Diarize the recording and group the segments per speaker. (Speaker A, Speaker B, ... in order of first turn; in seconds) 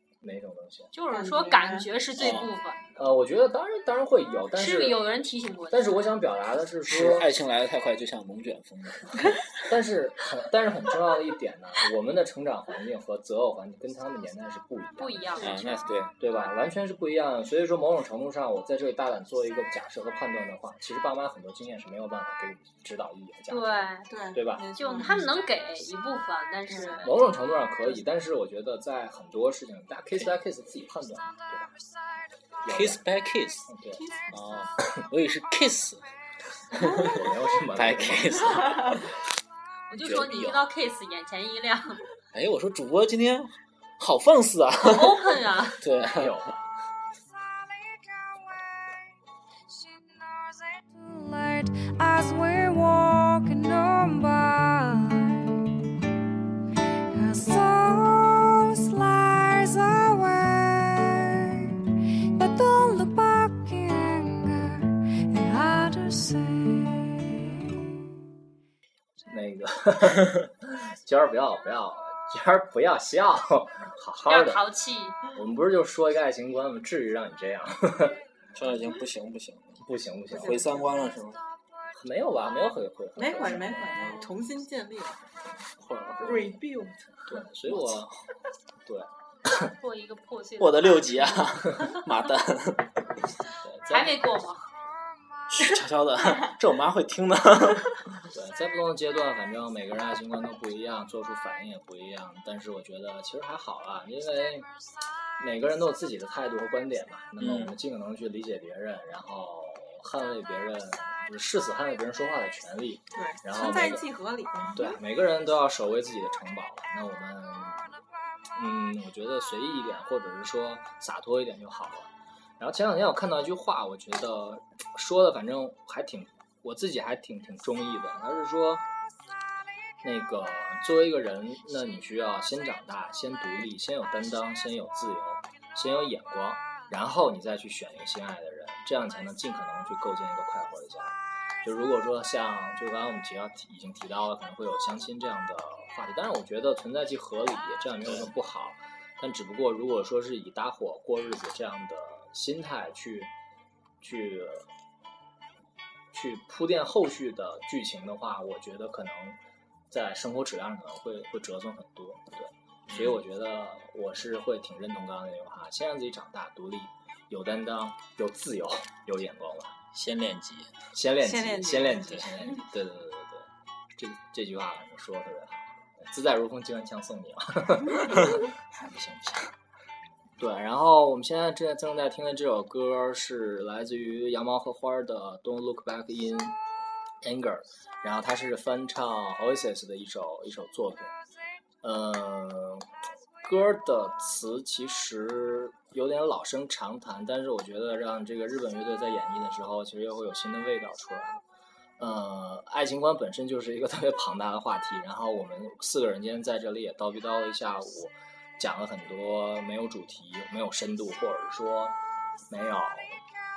Speaker A: 0.2-0.9, 3.0-5.0, 5.7-7.3, 9.7-15.5, 16.2-24.7, 27.0-31.8, 32.6-33.0, 33.7-34.0, 36.8-39.0, 46.1-46.6, 69.3-74.6, 75.3-78.2, 79.8-80.7, 82.0-84.1, 87.3-88.1, 88.8-89.7, 93.6-94.2, 98.3-104.7, 105.4-114.1, 114.7-118.0, 118.5-128.8, 130.0-153.3, 154.0-154.7, 156.1-159.4, 159.9-169.8, 170.9-178.5, 180.4-186.6, 187.2-191.1, 191.8-192.9, 193.4-201.4, 202.0-212.0, 212.5-213.2
Speaker B: 0.9-2.9, 4.5-6.1, 15.0-16.5, 23.5-24.1, 24.8-27.2, 39.9-42.0, 44.8-45.8, 74.3-75.2, 89.5-92.1, 93.9-94.7
Speaker C: 1.1-1.9, 24.1-25.4, 26.7-27.0, 34.0-34.3, 80.3-81.1, 83.2-85.3, 86.2-87.2, 113.2-115.0, 171.2-172.2
Speaker D: 2.2-2.5, 6.9-9.4, 15.4-16.1, 32.7-33.7, 34.3-36.0, 36.7-39.1, 40.0-40.7, 42.3-46.4, 78.5-79.8, 80.3-81.4, 84.0-84.2, 85.8-86.5, 87.7-88.1, 90.6-93.1, 95.5-98.0, 107.4-107.8, 162.9-163.2, 169.9-170.7, 178.1-179.5
Speaker E: 47.5-48.6, 49.7-55.9, 57.1-61.8, 62.4-67.5